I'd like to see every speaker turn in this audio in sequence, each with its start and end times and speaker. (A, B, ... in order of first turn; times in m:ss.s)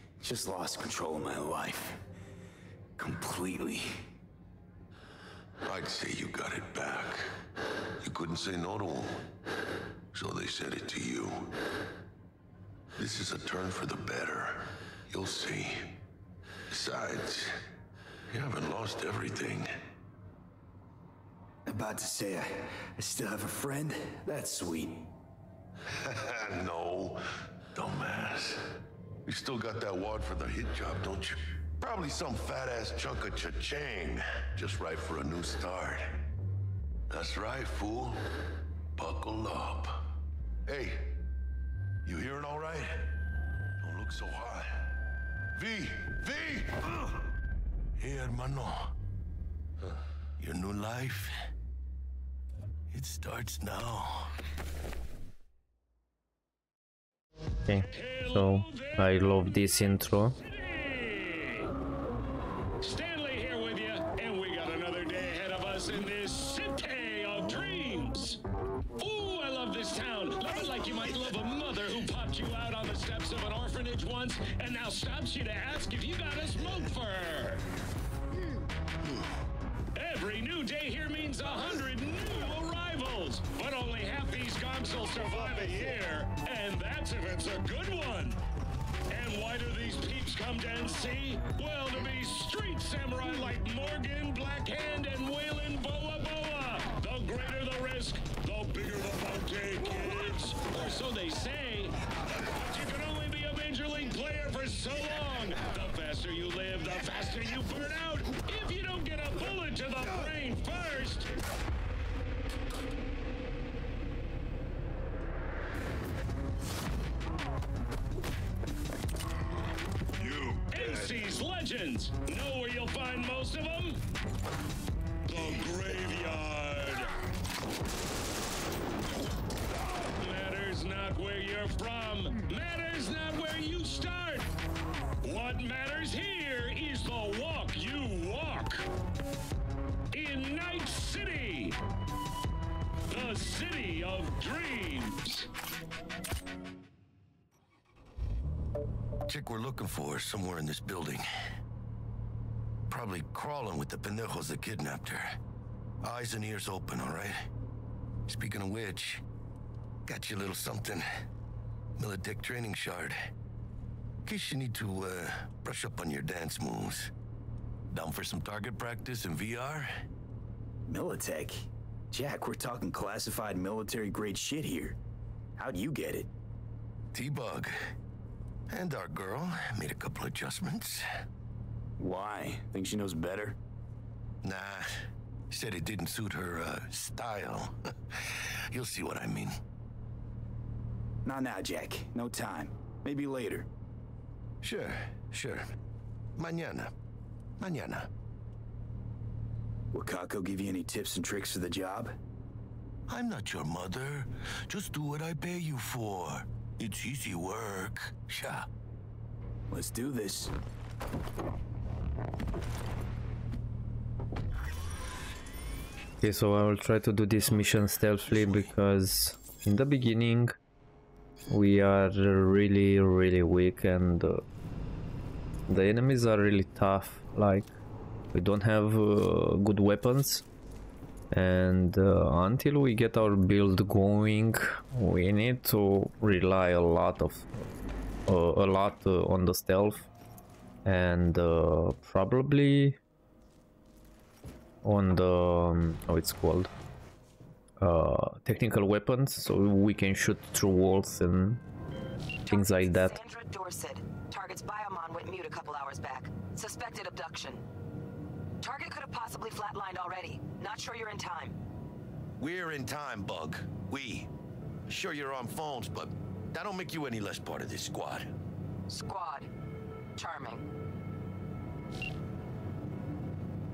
0:00.2-0:02.0 A
0:03.0-0:04.0 A
0:05.6-0:07.3 B
0:08.0-0:09.3 B
0:10.1-0:11.5 B
0:13.0-0:16.0 B
0:16.7-0:17.6 B
0:18.3-0:19.7 B
0:21.7-0:25.1 A
0:25.9-0:28.6 B
0:29.3-0:36.2 B
0:37.1-0:38.3 B
0:39.0-0:40.1 B
0:40.7-0:41.2 B
0:42.0-0:43.1 B
0:43.8-0:44.9 B
0:45.6-0:46.8 B
0:48.0-0:49.0 B
0:50.4-0:51.3 B
0:52.9-0:54.3 B
0:57.7-1:00.4 C
0:57.9-0:59.0 D
1:00.5-1:01.7 D
1:02.8-1:08.4 D
1:09.0-1:17.6 D
1:20.0-1:28.4 D
1:29.1-1:42.0 D
1:42.7-1:51.3 D
2:00.5-2:04.0 D
2:05.3-2:07.1 D
2:09.8-2:14.5 D
2:15.2-2:18.9 D
2:20.1-2:21.8 D
2:23.1-2:25.5 D
2:29.3-2:31.3 B
2:32.9-2:35.4 B
2:36.0-2:37.5 B
2:38.3-2:39.2 B
2:40.1-2:41.0 B
2:42.0-2:43.2 B
2:44.2-2:47.1 B
2:47.9-2:49.9 B
2:50.9-2:55.0 A
2:55.6-2:56.3 A
2:57.1-2:57.7 B
2:58.7-3:01.0 B
3:02.0-3:03.6 A
3:04.4-3:09.6 B
3:11.2-3:13.7 A
3:14.6-3:15.7 B
3:16.4-3:16.9 B
3:17.6-3:18.1 B
3:19.9-3:22.2 A
3:23.1-3:28.7 B
3:29.7-3:30.5 A
3:36.2-3:40.5 C
3:37.4-3:38.8 B
3:41.5-3:44.4 C
3:45.7-3:47.7 C
3:48.3-3:50.4 C
3:51.3-3:57.6 C
3:58.3-4:00.1 C
4:00.8-4:03.0 C
4:04.8-4:06.7 C
4:07.8-4:11.6 C
4:12.5-4:17.6 E
4:12.5-4:13.2 C
4:18.6-4:21.6 E
4:22.4-4:24.3 B
4:24.9-4:28.3 B
4:28.9-4:29.5 E
4:30.2-4:30.6 E